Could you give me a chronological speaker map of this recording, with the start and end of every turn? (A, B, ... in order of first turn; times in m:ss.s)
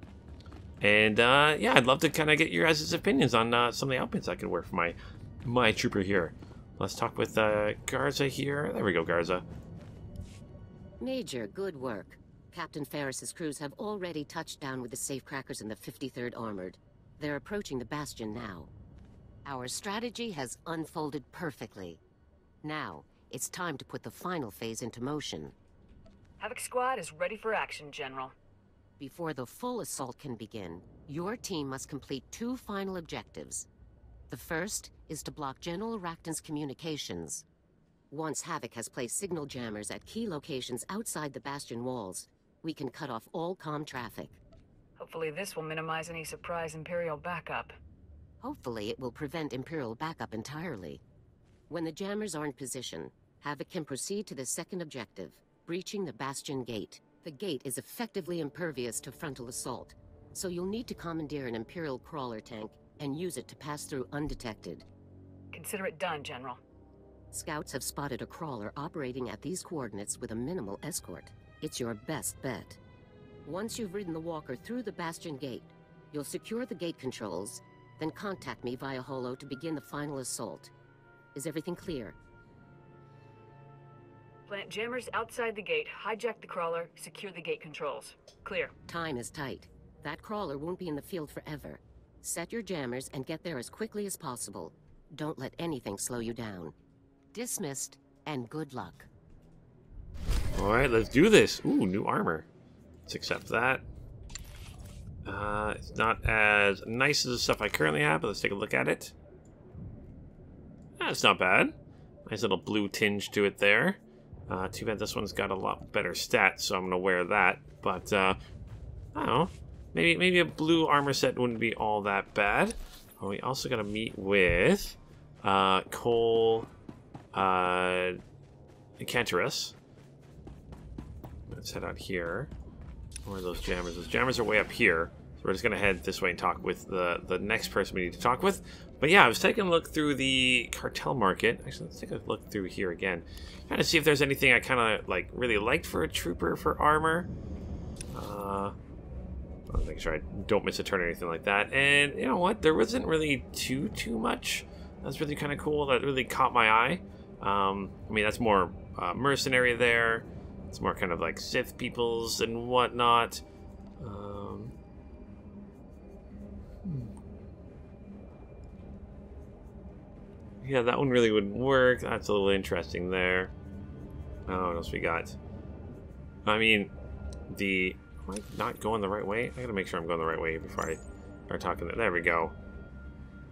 0:00.8-0:09.4 A
0:11.0-0:18.7 B
0:19.4-0:22.0 B
0:22.6-0:25.5 B
0:26.4-0:28.3 C
0:29.0-0:33.7 B
0:34.3-0:37.4 B
0:38.1-0:44.4 B
0:45.0-0:47.8 C
0:48.4-0:51.0 B
0:51.7-1:04.8 B
1:05.5-1:06.6 C
1:07.3-1:12.8 B
1:13.5-1:20.7 B
1:21.3-1:22.2 B
1:24.5-1:28.7 C
1:28.9-1:36.8 B
1:37.3-1:39.1 B
1:40.6-1:42.5 A
1:43.1-1:43.8 A
1:45.2-1:49.1 A
1:51.0-1:51.7 A
1:52.3-1:58.4 A
1:59.1-2:06.7 A
2:07.3-2:08.2 A
2:09.0-2:09.8 A
2:11.5-2:12.5 A
2:13.3-2:27.3 A
2:28.1-2:28.8 A
2:29.7-2:43.4 A
2:44.0-2:44.7 A
2:46.8-2:47.1 A
2:50.6-2:53.5 A
2:54.5-2:55.4 A
2:56.4-2:56.9 A
2:57.5-3:02.6 A